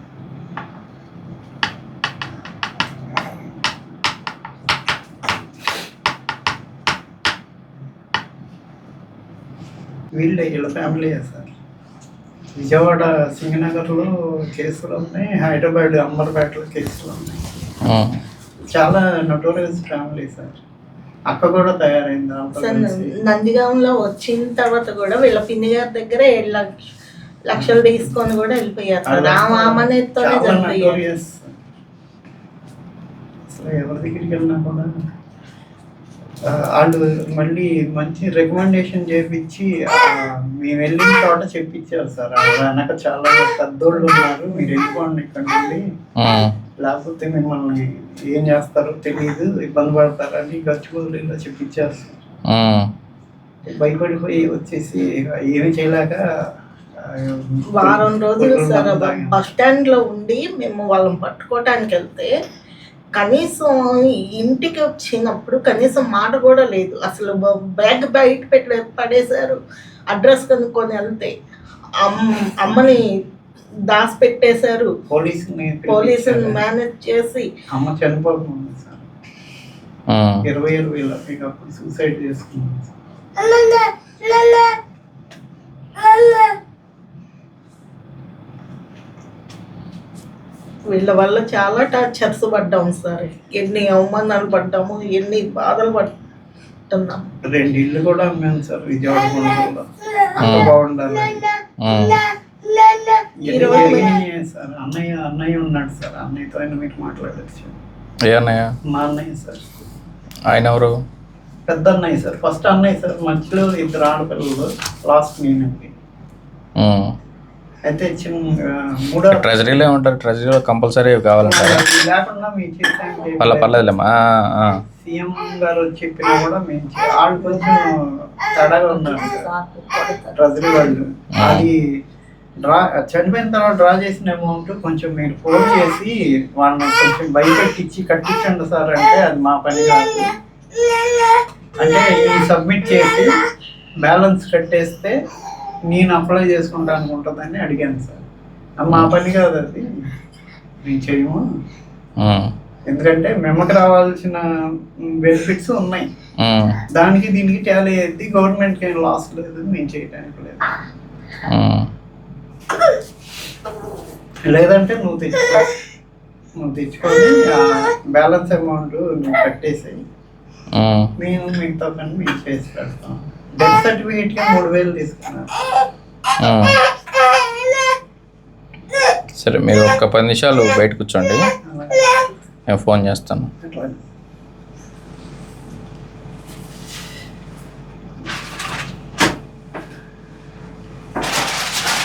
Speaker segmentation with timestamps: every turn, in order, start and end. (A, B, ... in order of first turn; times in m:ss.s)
0:10.2-0:11.5 A
0:12.5-0:17.4 A
0:17.8-0:18.2 B
0:18.7-0:20.6 A
0:21.3-0:23.1 A
0:22.5-0:26.7 C
0:27.4-0:31.1 C
0:27.5-0:28.1 A
0:29.1-0:31.5 A
0:33.5-0:34.9 A
0:36.4-0:45.8 A
0:46.2-0:46.5 B
0:46.8-0:52.2 A
0:52.5-0:52.9 B
0:53.6-0:56.2 A
0:57.0-0:59.4 A
0:57.7-1:02.3 C
1:03.1-1:11.3 C
1:12.0-1:13.0 C
1:13.9-1:14.9 C
1:15.1-1:16.6 A
1:15.9-1:17.5 C
1:17.7-1:19.1 A
1:20.1-1:20.4 B
1:20.4-1:23.0 A
1:23.4-1:24.8 C
1:26.0-1:26.6 C
1:30.9-1:36.1 C
1:36.9-1:37.2 C
1:37.5-1:41.4 A
1:40.4-1:40.7 B
1:41.8-1:42.2 B
1:42.9-1:44.2 C
1:43.4-1:47.8 A
1:48.2-1:48.7 B
1:48.9-1:49.7 A
1:50.5-1:50.9 B
1:51.7-1:55.9 A
1:56.8-1:57.1 B
1:57.8-1:59.5 A
1:59.3-2:01.8 B
2:01.4-2:04.0 A
2:03.4-2:04.7 B
2:05.0-2:09.5 A
2:08.7-2:10.9 C
2:10.4-2:11.8 A
2:11.4-2:11.7 B
2:12.6-2:20.2 A
2:21.8-2:23.3 A
2:24.0-2:25.1 A
2:25.9-2:28.2 A
2:28.8-2:30.0 A
2:30.8-2:31.4 A
2:32.2-2:32.5 B
2:32.9-2:34.4 A
2:35.1-2:36.0 A
2:36.4-2:36.8 B
2:36.9-2:40.7 A
2:41.5-2:41.9 B
2:44.5-2:45.7 A
2:46.6-2:50.0 A
2:50.7-2:51.1 B
2:51.2-2:55.6 A
2:56.4-2:56.8 B
2:59.4-3:01.4 B
3:01.7-3:02.3 A
3:02.7-3:03.5 B
3:03.6-3:04.0 A